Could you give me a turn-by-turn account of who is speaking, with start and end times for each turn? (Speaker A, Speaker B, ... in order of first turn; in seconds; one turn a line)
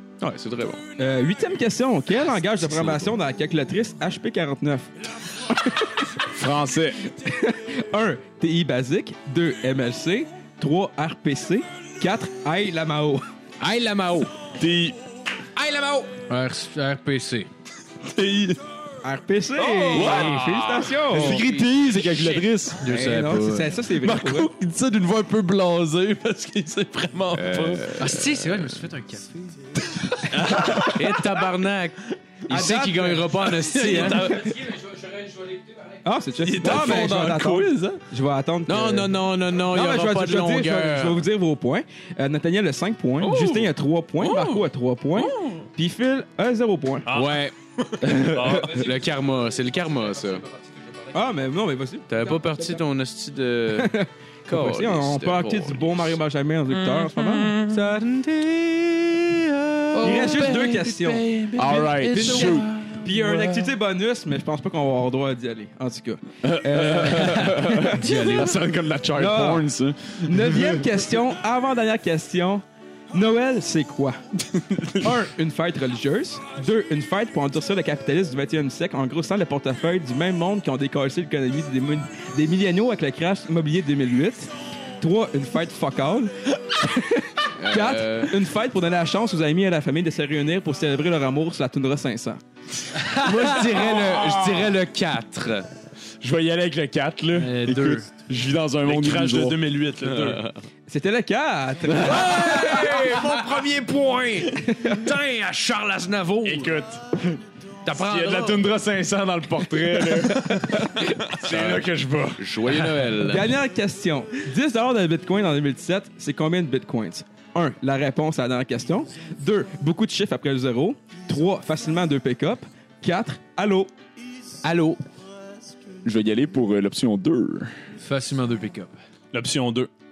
Speaker A: 0.2-0.8
Speaker B: 1.0-5.9
Speaker A: 2.6-3.1
Speaker C: 6.3-7.0
Speaker B: 7.1-13.2
Speaker A: 13.6-14.3
Speaker C: 14.6-15.0
Speaker A: 15.6-16.2
Speaker D: 16.2-17.5
Speaker E: 18.0-18.6
Speaker B: 19.0-21.4
Speaker A: 19.7-22.4
Speaker E: 19.7-20.9
Speaker D: 20.1-20.5
Speaker C: 21.1-22.8
Speaker D: 22.8-23.8
Speaker B: 22.8-24.5
Speaker E: 23.9-28.0
Speaker A: 27.3-28.6
Speaker D: 28.0-29.7
Speaker E: 30.1-31.4
Speaker A: 30.5-34.3
Speaker B: 32.5-33.4
Speaker E: 33.6-34.6
Speaker B: 34.0-34.5
Speaker D: 34.4-36.0
Speaker B: 36.0-47.1
Speaker E: 36.4-38.0
Speaker A: 38.7-41.2
Speaker E: 43.2-45.6
Speaker E: 47.0-48.9
Speaker A: 47.1-47.5
Speaker C: 48.0-48.4
Speaker A: 48.5-50.5
Speaker B: 51.1-52.5
Speaker A: 52.1-53.9
Speaker B: 53.7-57.6
Speaker A: 54.5-56.1
Speaker E: 56.7-57.8
Speaker A: 57.6-60.5
Speaker E: 59.9-63.7
Speaker B: 60.0-61.3
Speaker C: 61.5-62.7
Speaker A: 61.7-62.6
Speaker B: 62.1-68.4
Speaker C: 66.4-71.0
Speaker D: 67.0-68.5
Speaker B: 69.1-69.7
Speaker B: 70.2-74.2
Speaker B: 75.0-92.4
Speaker A: 87.5-88.4
Speaker A: 93.1-95.7
Speaker C: 93.8-94.7
Speaker C: 96.2-99.6
Speaker D: 97.4-98.1
Speaker E: 98.8-100.5
Speaker A: 100.2-100.5
Speaker B: 100.9-102.9
Speaker C: 101.9-103.4
Speaker A: 101.9-106.8
Speaker B: 104.5-105.0
Speaker C: 106.4-112.4
Speaker A: 107.8-108.7
Speaker B: 110.1-111.1
Speaker A: 111.4-113.5
Speaker B: 113.2-123.9
Speaker A: 124.6-125.0
Speaker C: 126.0-127.7
Speaker D: 128.0-128.9
Speaker E: 129.3-129.9